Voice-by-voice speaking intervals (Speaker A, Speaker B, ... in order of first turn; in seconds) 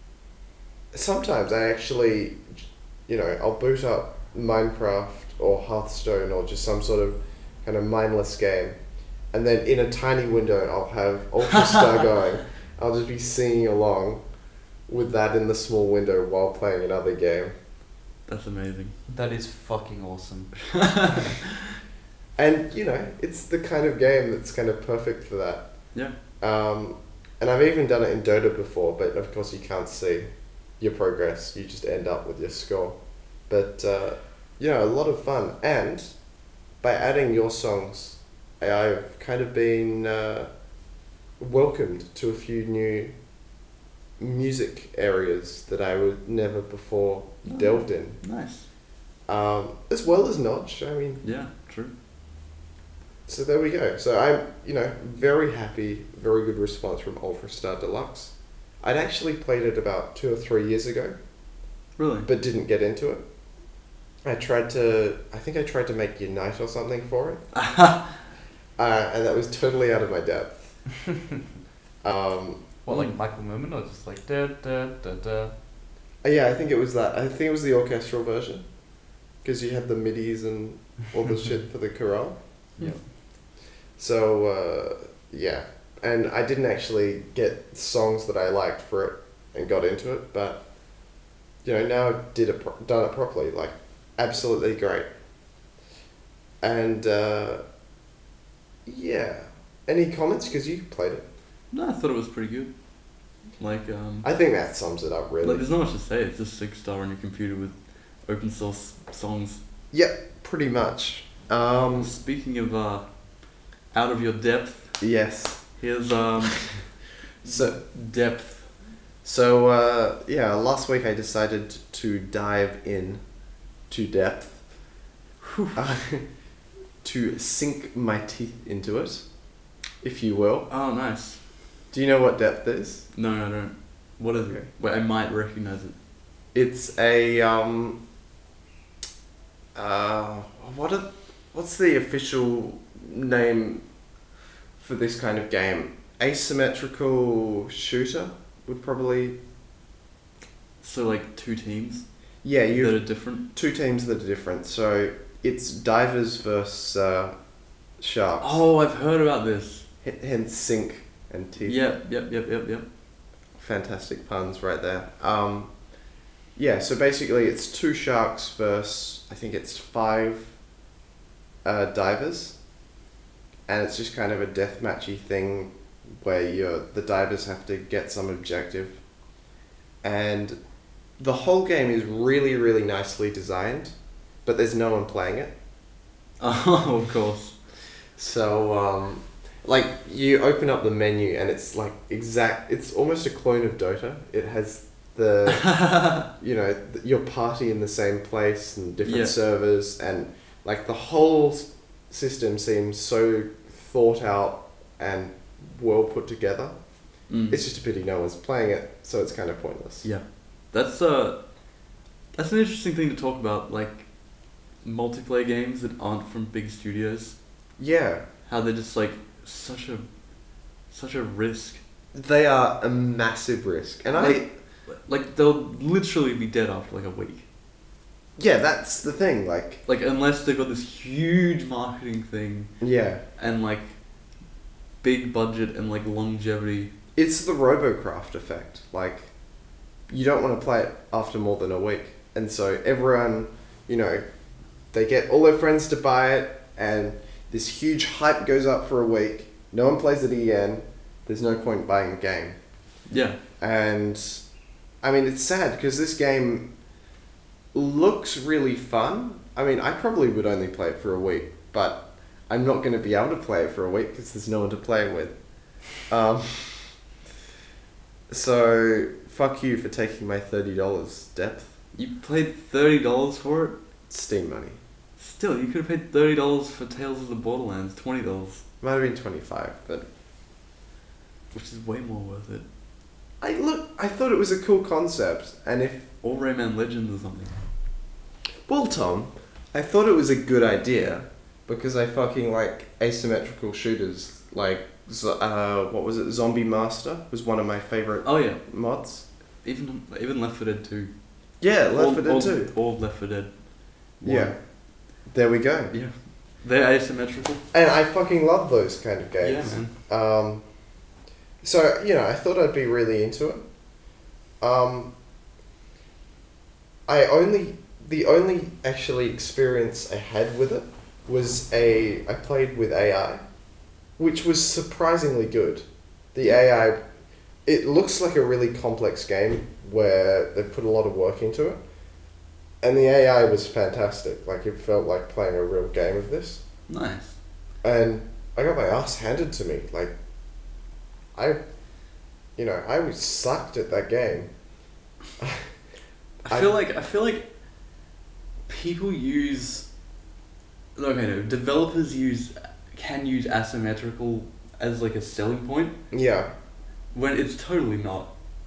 Speaker A: 0.9-8.8, 9.3-14.2, 14.9-17.5, 22.4-25.9, 26.4-30.3, 30.8-33.0, 33.5-36.1, 36.8-40.5, 41.4-43.1, 44.2-48.2, 49.3-51.2, 53.3-61.2, 62.3-63.2, 64.2-67.4, 68.8-70.7, 72.0-72.8, 76.2-78.6, 79.4-82.4, 84.0-90.6, 91.6-95.1, 96.6-97.6, 98.9-101.2, 104.2-105.7, 109.9-112.1, 115.0-115.6, 117.4-117.8, 119.2-123.2, 123.9-124.6, 125.8-126.3, 127.0-129.2, 130.0-130.7, 131.9-133.1, 136.5-138.0, 139.8-143.8, 144.8-149.4, 152.4-157.3, 158.0-158.6, 160.0-161.8, 163.6-165.7, 166.6-170.5, 171.6-172.6, 173.7-179.0, 180.0-180.6, 181.2-183.9, 184.4-185.5, 188.2-206.7, 207.5-210.1, 217.8-218.2, 222.1-224.5, 228.4-229.8, 232.8-233.2, 237.2-239.3, 240.1-244.2, 244.9-252.6, 253.6-254.4, 255.0-256.7, 257.7-265.3, 266.0-267.0, 268.3-271.7, 274.1-274.8, 278.8-280.1, 283.4-286.1, 288.7-299.2, 301.6-302.7, 304.2-304.6, 305.3-305.9, 307.7-310.6, 311.6-313.6, 314.6-315.1, 317.1-323.4, 324.2-327.0, 327.7-331.8, 332.8-336.6, 337.8-340.1, 341.4-341.6, 342.6-344.5, 345.4-345.7, 356.1-356.5
Speaker B: 18.3-18.9, 20.7-21.4, 47.5-48.7, 51.2-51.9, 62.0-62.3, 67.5-68.1, 101.7-102.7, 103.6-104.3, 105.4-107.8, 108.3-109.6, 112.0-113.1, 113.9-115.0, 115.8-116.8, 117.5-118.7, 125.4-125.8, 130.7-131.4, 133.1-135.9, 150.8-152.1, 152.7-153.4, 158.4-159.8, 161.7-162.8, 186.4-187.6, 195.5-196.3, 199.0-199.3, 207.3-207.6, 210.0-211.4, 212.3-214.1, 214.8-217.4, 218.5-220.1, 220.9-221.8, 224.2-227.5, 229.9-232.7, 233.4-233.9, 235.0-236.9, 253.1-253.4, 271.9-273.8, 275.2-278.6, 281.5-282.6, 286.2-287.5, 298.2-298.6, 299.6-301.1, 301.9-303.5, 304.2-304.6, 305.9-307.6, 309.4-309.9, 336.9-337.4, 346.4-347.5, 348.7-349.9, 351.0-355.9, 357.1-358.3
Speaker C: 19.1-20.8, 72.8-75.5